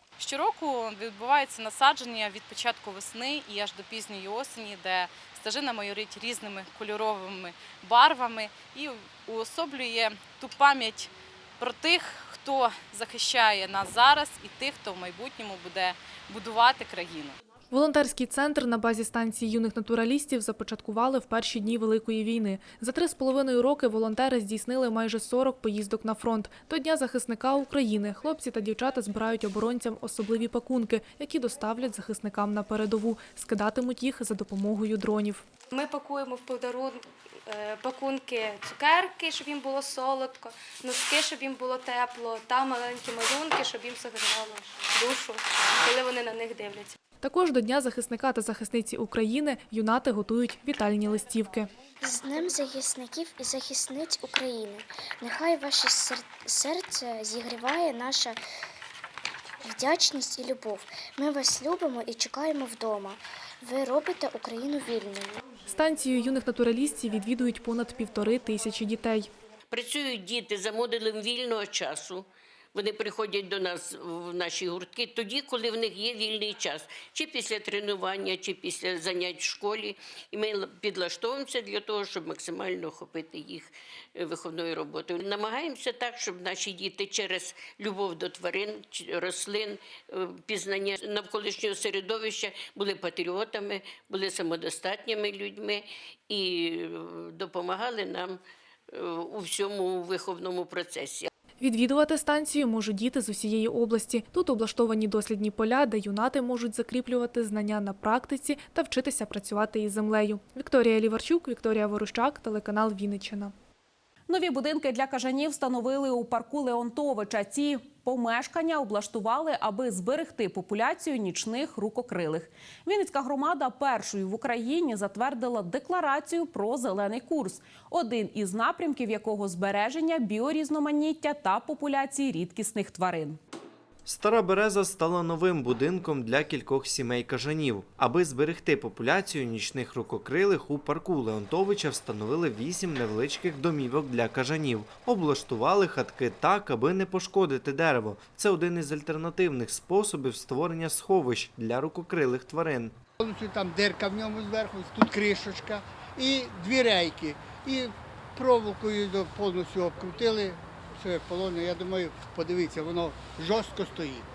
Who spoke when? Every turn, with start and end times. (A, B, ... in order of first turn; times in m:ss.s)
0:00.2-0:17.4 A
0:17.7-0:35.4 B
0:35.7-0:36.9 C
0:37.8-0:43.6 C
0:44.2-0:45.1 C
0:46.1-0:46.8 C
0:47.2-0:51.7 B
0:52.0-0:58.4 D
0:59.6-1:05.4 D
1:05.7-1:09.3 B
1:09.7-1:38.4 E
1:38.9-1:41.3 E
1:41.6-1:53.5 B
1:54.3-2:13.4 F
2:14.0-2:32.9 G
2:33.2-2:44.2 H